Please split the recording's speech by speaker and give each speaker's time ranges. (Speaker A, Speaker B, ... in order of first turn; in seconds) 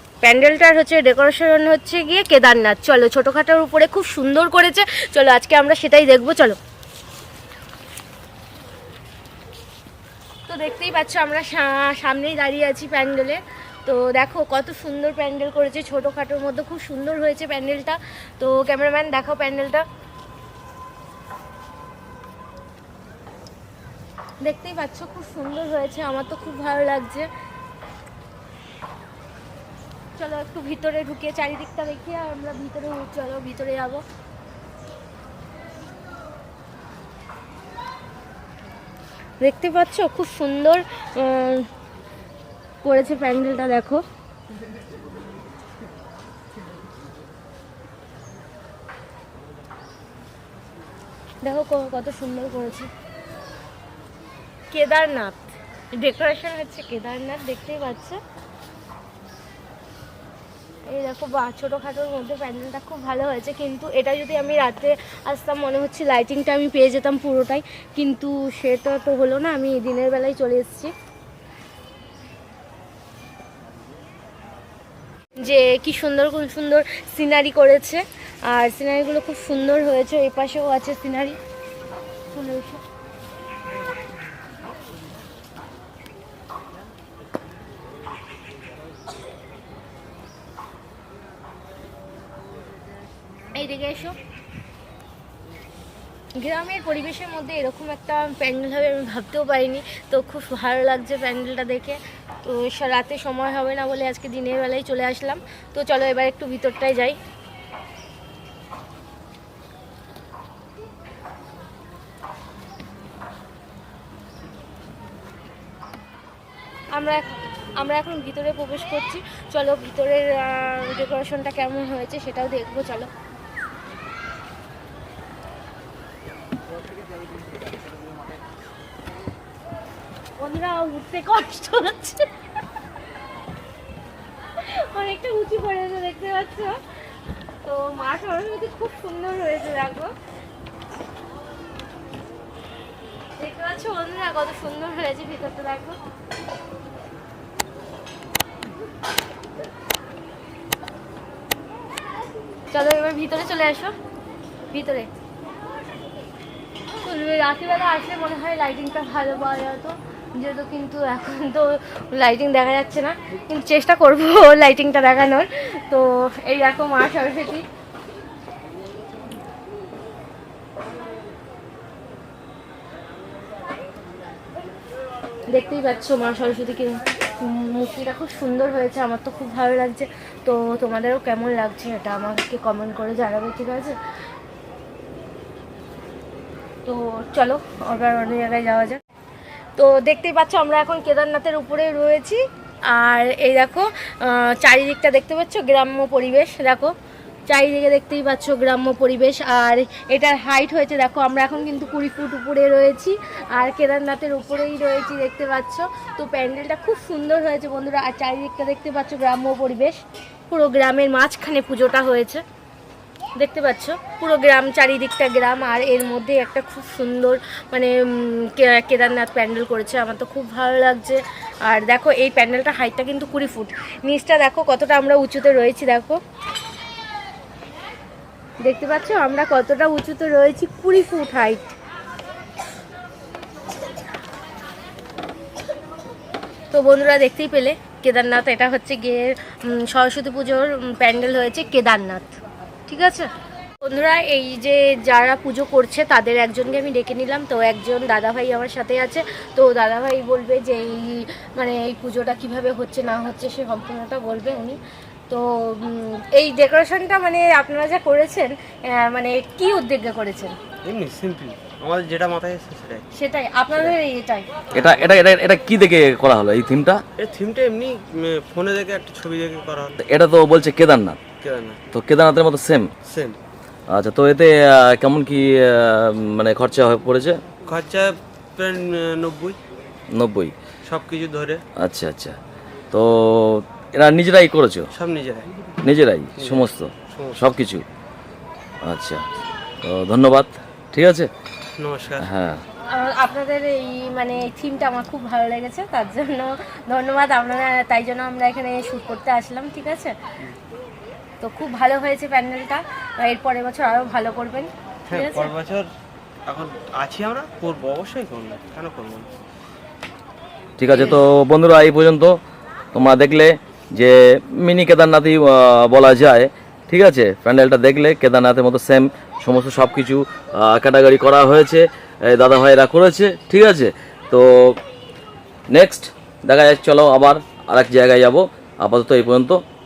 Speaker A: 0.2-6.6, 10.5-19.8, 24.4-27.3, 30.2-34.0, 39.4-41.7, 42.8-44.0, 51.4-52.9, 54.7-58.2, 60.9-70.9, 75.4-81.4, 82.3-82.8, 93.5-94.2, 96.4-107.2, 116.9-123.1, 130.4-132.3, 134.6-136.8, 137.6-140.1, 143.4-146.0, 152.7-153.9, 154.7-155.1, 157.0-167.7, 175.5-184.0, 186.8-189.0, 189.8-196.9, 197.5-212.4, 213.3-226.2, 228.6-231.7, 236.7-243.3, 243.8-260.6, 263.1-264.5, 292.9-300.1, 301.4-305.5
Speaker B: 260.8-263.1, 267.2-270.0, 271.4-271.8, 273.0-273.4, 277.7-279.6, 280.9-281.6, 284.9-285.5, 286.4-287.4, 291.8-292.3, 305.1-305.9, 306.5-309.3
Speaker C: 264.7-267.0, 270.0-271.2, 271.9-272.9, 273.9-277.4, 280.1-280.5, 281.8-282.4, 282.9-284.9, 285.8-287.8, 288.8-289.2, 289.8-291.3, 292.2-292.6, 310.8-312.4, 312.9-324.8, 325.7-329.6